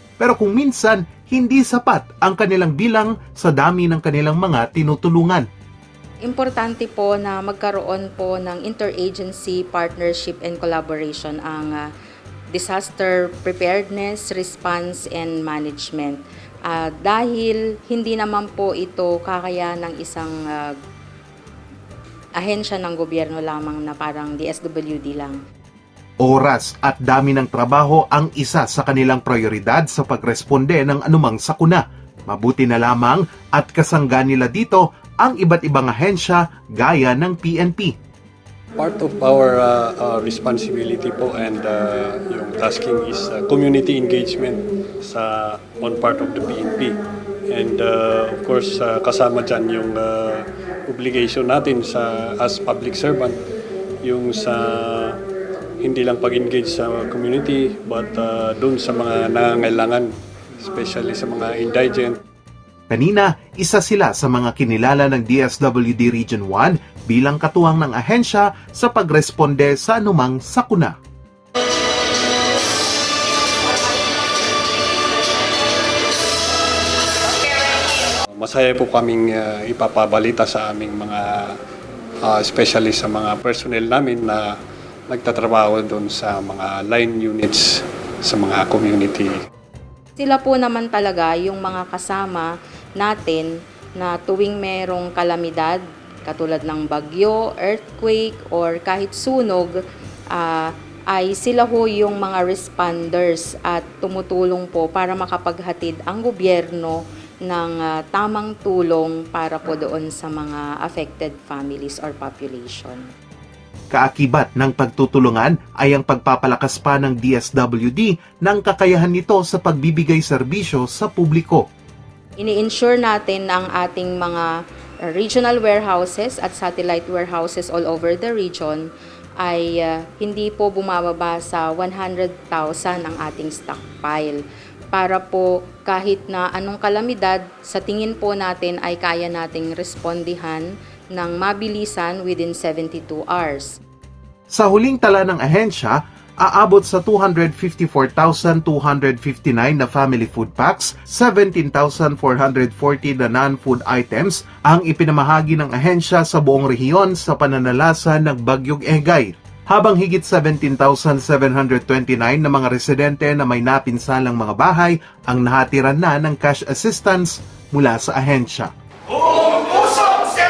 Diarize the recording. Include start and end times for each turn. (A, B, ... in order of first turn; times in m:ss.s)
0:00.2-0:05.4 A
0:06.2-0:11.9 B
0:12.5-0:20.8 B
0:22.4-0:25.4 B
0:26.2-0:37.9 A
0:38.8-0:47.0 C
0:47.5-0:53.4 C
0:54.0-0:55.2 C
0:55.8-1:02.2 C
1:02.9-1:11.0 A
1:18.4-1:21.6 C
1:22.2-1:24.6 C
1:25.1-1:29.3 C
1:30.2-1:39.8 B
1:40.3-1:53.1 B
1:53.9-2:01.6 A
2:02.4-2:04.5 B
2:05.1-2:08.9 B
2:09.4-2:14.4 B
2:14.9-2:23.8 B
2:24.5-2:48.7 A